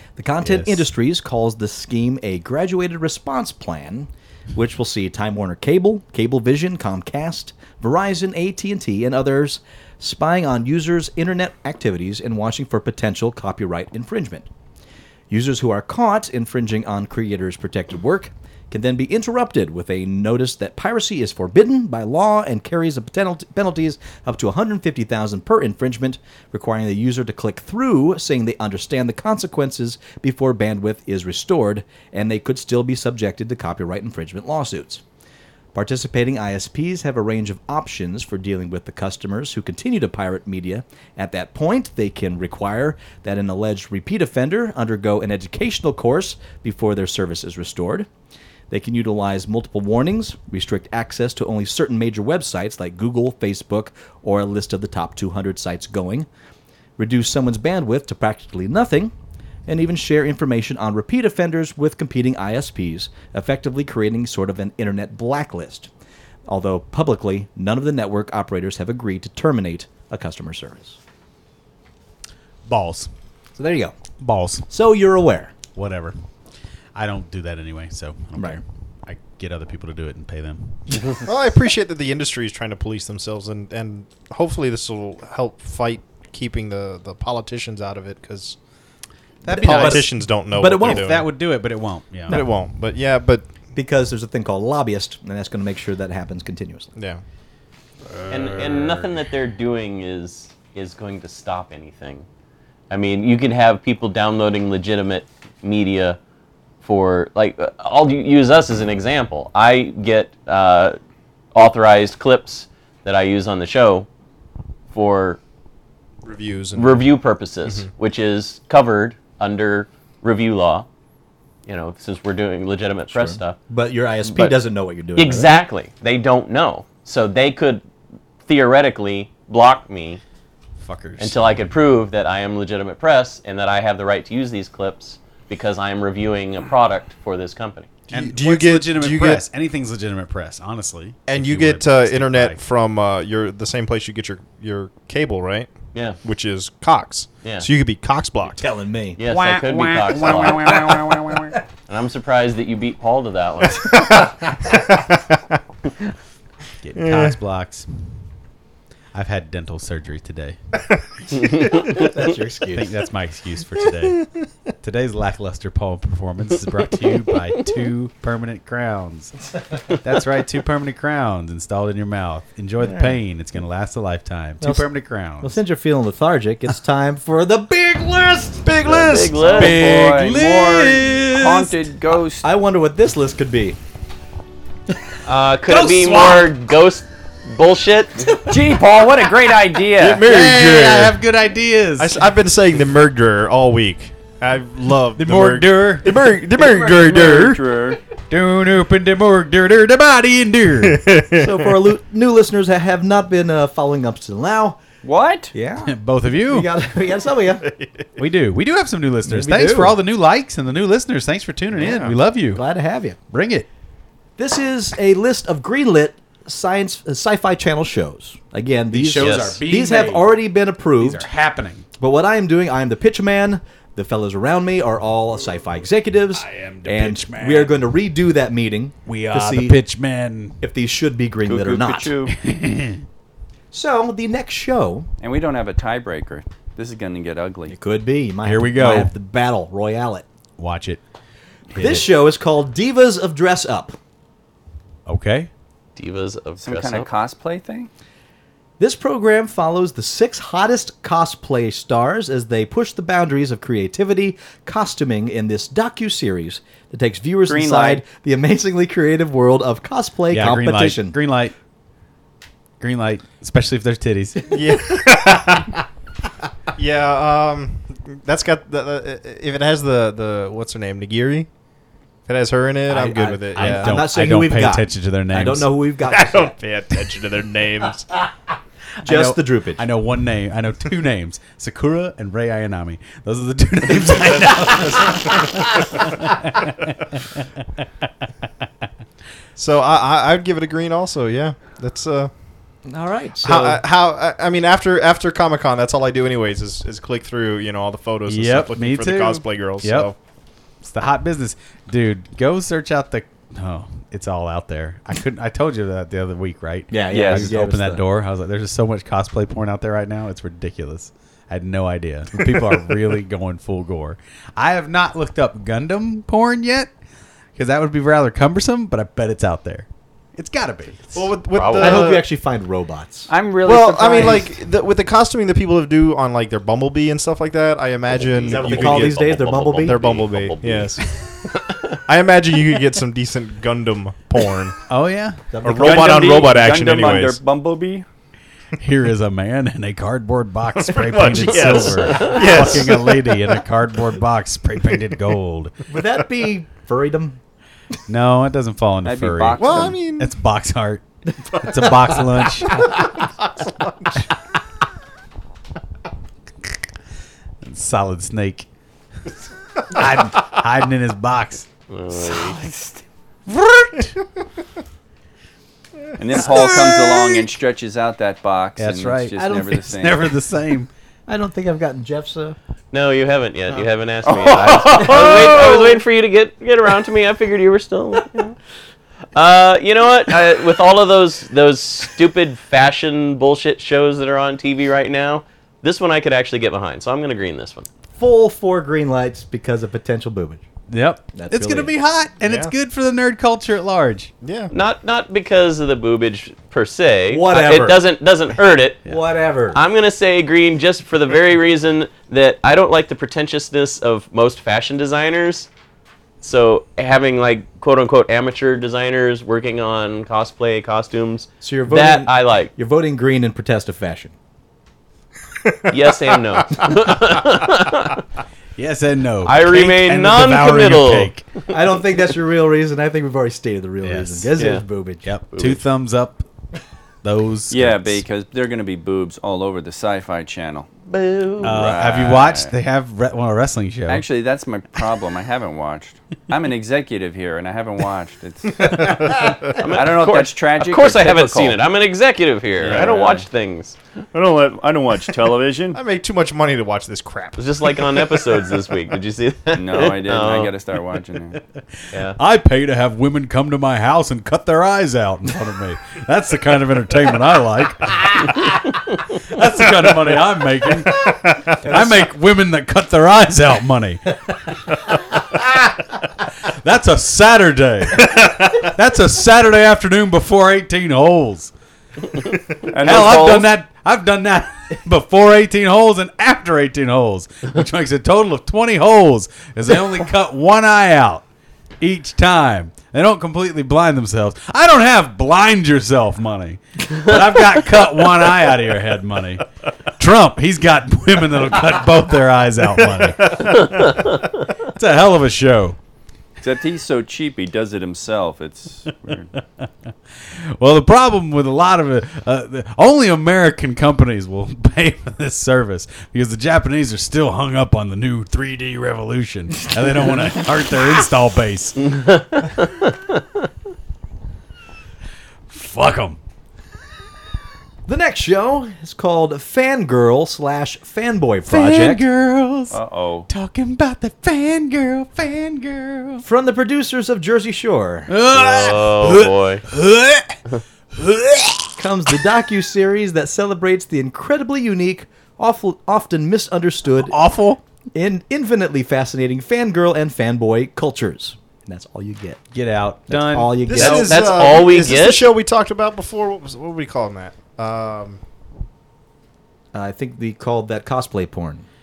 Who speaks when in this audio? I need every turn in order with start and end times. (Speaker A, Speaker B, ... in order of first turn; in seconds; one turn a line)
Speaker A: 0.2-14.5
Speaker B: 0.4-0.9
Speaker A: 15.3-35.0
Speaker A: 35.7-48.1
Speaker A: 48.7-56.3
Speaker A: 57.0-59.1
Speaker A: 59.7-65.9
Speaker A: 66.5-71.0
Speaker B: 72.7-73.1
Speaker A: 73.5-74.0
Speaker B: 74.2-74.7
Speaker A: 74.7-75.6
Speaker B: 75.7-76.2
Speaker B: 76.9-81.0
Speaker C: 81.2-88.6
Speaker B: 89.4-90.1
Speaker A: 89.5-91.2
Speaker C: 89.5-91.3
Speaker B: 90.8-92.4
Speaker C: 92.3-93.5
Speaker A: 92.3-92.6
Speaker A: 93.7-96.9
Speaker C: 97.0-97.2
Speaker B: 98.0-99.2
Speaker D: 98.3-102.2
Speaker D: 102.9-106.2
Speaker D: 106.8-111.0
Speaker D: 111.5-114.1
Speaker D: 114.9-115.4
Speaker C: 116.2-117.1
Speaker D: 116.7-120.9
Speaker D: 121.7-123.6
Speaker A: 123.1-125.5
Speaker D: 124.2-124.6
Speaker D: 125.1-127.8
Speaker D: 128.4-130.2
Speaker B: 130.8-131.7
Speaker D: 131.2-137.9
Speaker C: 138.1-139.4
Speaker B: 138.1-142.6
Speaker C: 141.3-145.7
Speaker D: 145.9-146.2
Speaker C: 146.2-148.6
Speaker A: 148.5-149.2
Speaker D: 149.2-150.9
Speaker B: 149.2-151.5
Speaker D: 151.9-153.9
Speaker C: 153.8-155.6
Speaker B: 156.8-157.9
Speaker C: 156.9-157.3
Speaker B: 159.1-160.6
Speaker D: 161.3-162.1
Speaker A: 161.9-162.9
Speaker B: 162.7-164.2
Speaker B: 164.8-169.4
Speaker B: 169.9-175.6
Speaker A: 172.8-173.2
Speaker A: 174.6-174.9
Speaker A: 175.4-178.7
Speaker C: 178.6-179.7
Speaker D: 178.8-179.8
Speaker E: 179.4-182.5
Speaker B: 179.5-181.9
Speaker A: 182.4-183.8
Speaker D: 185.2-188.3
Speaker B: 185.7-186.5
Speaker E: 188.4-190.3
Speaker C: 190.0-191.2
Speaker B: 190.2-192.3
Speaker C: 192.0-197.6
Speaker B: 195.2-196.2
Speaker E: 196.6-198.0
Speaker B: 198.3-201.1
Speaker C: 200.8-201.8
Speaker A: 201.4-204.8
Speaker E: 205.0-205.5
Speaker A: 205.5-207.7
Speaker B: 205.8-206.7
Speaker C: 207.7-208.1
Speaker B: 208.2-212.6
Speaker A: 209.2-209.9
Speaker C: 211.7-212.2
Speaker A: 212.5-213.2
Speaker B: 213.3-213.7
Speaker A: 214.4-221.3
Speaker B: 218.9-220.4
Speaker D: 219.2-219.6
Speaker B: 221.0-221.8
Speaker A: 222.0-229.8
Speaker B: 226.3-227.8
Speaker B: 229.1-230.6
Speaker A: 230.6-232.1
Speaker E: 231.4-232.3
Speaker B: 232.3-233.1
Speaker A: 233.7-235.1
Speaker E: 235.2-237.8
Speaker A: 237.7-240.2
Speaker B: 238.4-239.1
Speaker B: 240.6-241.0
Speaker B: 241.7-242.1
Speaker A: 241.7-243.9
Speaker B: 245.1-245.5
Speaker D: 245.9-247.1
Speaker E: 246.6-247.9
Speaker A: 248.8-261.2
Speaker E: 257.4-258.0
Speaker B: 260.3-261.5
Speaker B: 262.8-264.9
Speaker C: 264.5-265.7
Speaker C: 266.8-271.5
Speaker C: 272.2-274.1
Speaker A: 272.9-276.6
Speaker B: 273.5-275.7
Speaker C: 276.1-278.1
Speaker B: 279.0-287.4
Speaker A: 279.0-279.9
Speaker C: 289.6-292.3
Speaker A: 292.9-293.8
Speaker C: 293.4-300.1
Speaker B: 298.3-300.1
Speaker B: 300.8-316.9
Speaker A: 306.9-308.0
Speaker E: 307.1-307.6
Speaker B: 317.6-321.3
Speaker C: 321.1-322.2
Speaker D: 321.5-322.1
Speaker A: 321.7-323.3
Speaker E: 323.3-324.6
Speaker C: 323.6-331.0
Speaker A: 328.4-330.0
Speaker D: 328.5-331.0
Speaker D: 331.5-332.0
Speaker C: 332.1-334.8
Speaker B: 334.9-335.5
Speaker A: 335.5-336.4
Speaker C: 335.6-337.4
Speaker E: 335.8-338.0
Speaker B: 338.8-345.7
Speaker C: 340.8-343.2
Speaker D: 341.7-342.4
Speaker A: 345.9-347.4
Speaker B: 348.1-352.9
Speaker E: 349.0-350.0
Speaker C: 349.6-350.3
Speaker C: 352.7-354.3
Speaker B: 357.6-358.7
Speaker B: 359.9-361.7
Speaker D: 361.9-362.6
Speaker E: 362.2-363.0
Speaker B: 363.5-364.1
Speaker E: 366.2-370.3
Speaker B: 366.3-367.4
Speaker B: 368.8-370.9
Speaker A: 371.3-372.6
Speaker D: 372.9-378.6
Speaker E: 374.6-375.1
Speaker A: 375.0-375.5
Speaker D: 379.3-387.9
Speaker A: 388.1-390.6
Speaker B: 390.9-394.3
Speaker A: 391.3-391.9
Speaker C: 392.4-392.7
Speaker C: 394.4-394.7
Speaker D: 394.7-399.1
Speaker A: 397.3-398.1
Speaker A: 399.1-399.8
Speaker D: 399.7-405.7
Speaker D: 406.4-412.7
Speaker A: 411.6-414.3
Speaker C: 415.6-416.9
Speaker D: 415.9-418.2
Speaker B: 418.8-421.5
Speaker D: 419.4-421.3
Speaker A: 421.7-425.3
Speaker B: 424.0-424.5
Speaker D: 424.6-424.8
Speaker B: 425.2-426.4
Speaker D: 425.5-425.8
Speaker B: 427.2-428.2
Speaker E: 427.7-430.9
Speaker D: 431.1-431.9
Speaker E: 431.6-432.7
Speaker B: 431.6-434.2
Speaker E: 434.1-441.8
Speaker C: 439.3-439.5
Speaker D: 439.6-444.0
Speaker E: 442.8-443.4
Speaker C: 442.9-443.2
Speaker E: 444.3-446.0
Speaker C: 445.2-447.7
Speaker D: 447.6-450.7
Speaker E: 449.7-451.6
Speaker B: 452.1-464.3
Speaker C: 461.3-461.6
Speaker A: 461.9-462.1
Speaker B: 466.6-471.7
Speaker E: 472.9-473.7
Speaker B: 473.0-481.4
Speaker B: 482.0-489.7
Speaker B: 490.2-494.1
Speaker C: 493.2-494.1
Speaker B: 494.8-496.0
Speaker E: 496.6-499.5
Speaker B: 499.3-499.9
Speaker B: 500.5-512.0
Speaker D: 512.1-513.4
Speaker B: 515.7-516.4
Speaker A: 518.0-522.2
Speaker B: 521.7-526.4
Speaker E: 522.9-523.5
Speaker A: 526.4-528.3
Speaker B: 528.3-530.6
Speaker D: 528.5-529.8
Speaker B: 531.1-532.0
Speaker A: 532.0-537.4
Speaker B: 537.2-537.8
Speaker A: 538.1-542.6
Speaker B: 542.7-544.3
Speaker A: 543.3-544.5
Speaker C: 543.9-548.4
Speaker D: 544.0-545.5
Speaker A: 549.9-551.9